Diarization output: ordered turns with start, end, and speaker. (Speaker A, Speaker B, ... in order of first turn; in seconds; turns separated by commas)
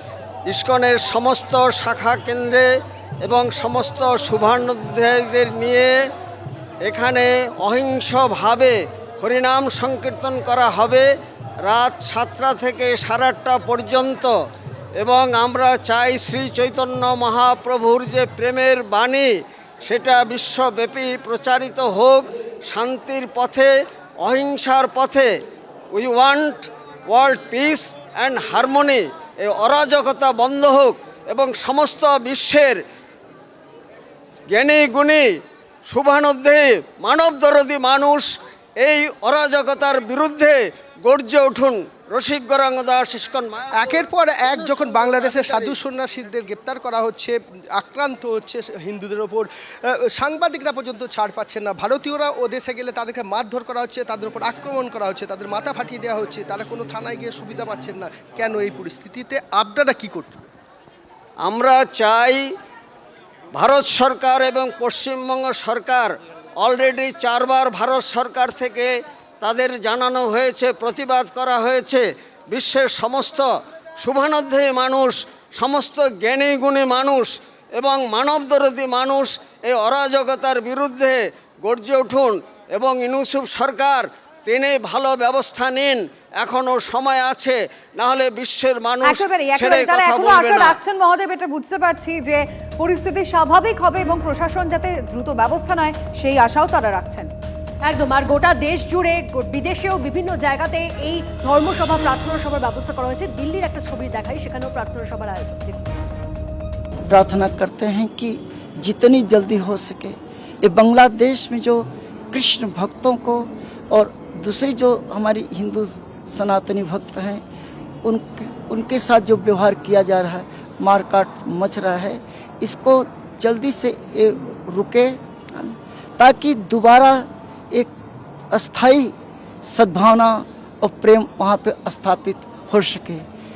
Speaker A: 0.5-2.7, Speaker A: 3.2-5.9, Speaker A: 6.8-11.0, Speaker A: 11.6-14.3, Speaker A: 15.0-19.3, Speaker A: 19.8-25.3, Speaker A: 25.9-32.8, Speaker A: 34.5-35.3, Speaker A: 35.9-38.3, Speaker A: 38.8-45.8, Speaker B: 43.8-60.5, Speaker A: 61.4-62.4, Speaker A: 63.5-68.9, Speaker A: 69.4-73.5, Speaker A: 74.0-90.8, Speaker C: 89.0-97.3, Speaker D: 97.8-105.8, Speaker E: 107.1-117.4, Speaker E: 118.0-127.9, Speaker E: 128.5-129.1, Speaker E: 129.7-133.2